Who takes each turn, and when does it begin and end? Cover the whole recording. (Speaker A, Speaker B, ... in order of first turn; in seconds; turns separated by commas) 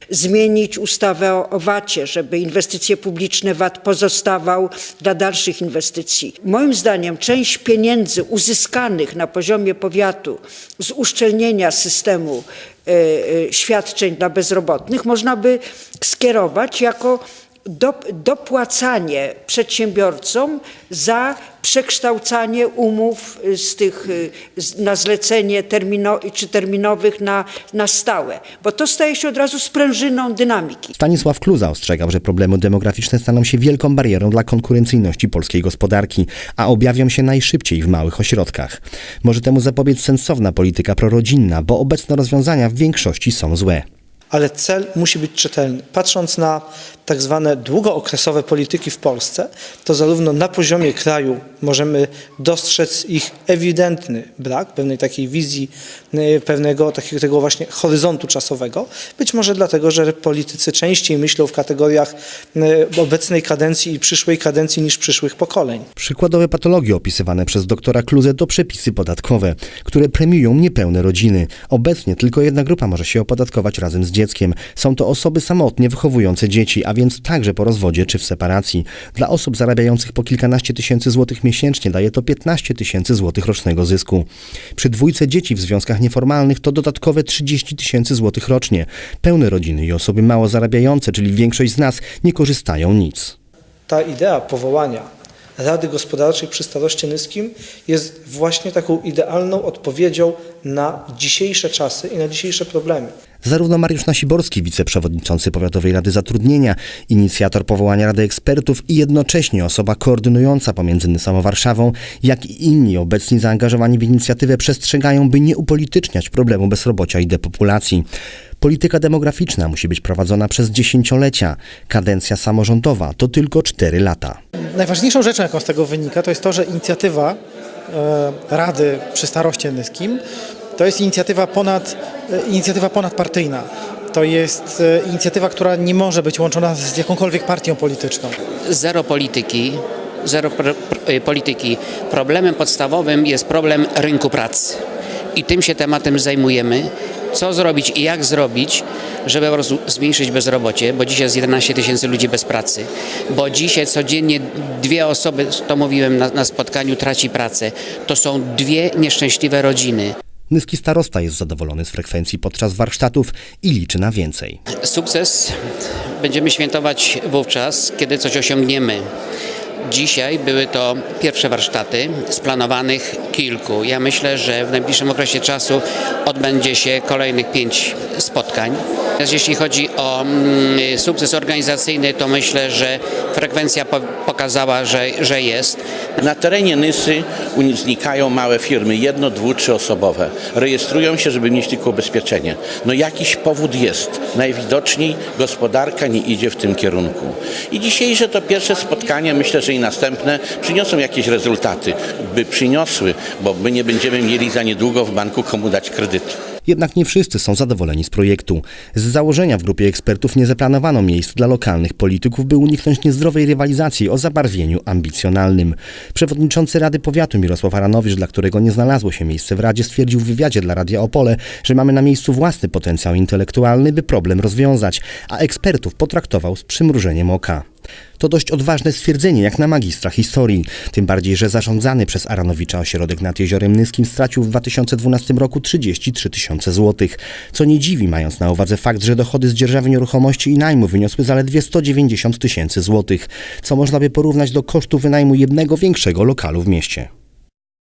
Speaker A: 0.1-30.9, Speaker B: 31.0-43.8, Speaker C: 44.3-65.8, Speaker B: 66.0-93.3, Speaker C: 93.9-103.1, Speaker B: 103.4-118.0, Speaker B: 118.6-124.4, Speaker D: 124.7-127.4, Speaker D: 127.9-130.2, Speaker D: 130.8-138.3, Speaker E: 138.6-144.8, Speaker E: 145.3-160.1, Speaker B: 160.5-164.6, Speaker E: 164.8-165.6, Speaker E: 166.1-169.0, Speaker E: 169.8-185.8, Speaker F: 186.2-206.4, Speaker B: 206.6-227.6, Speaker B: 228.2-247.1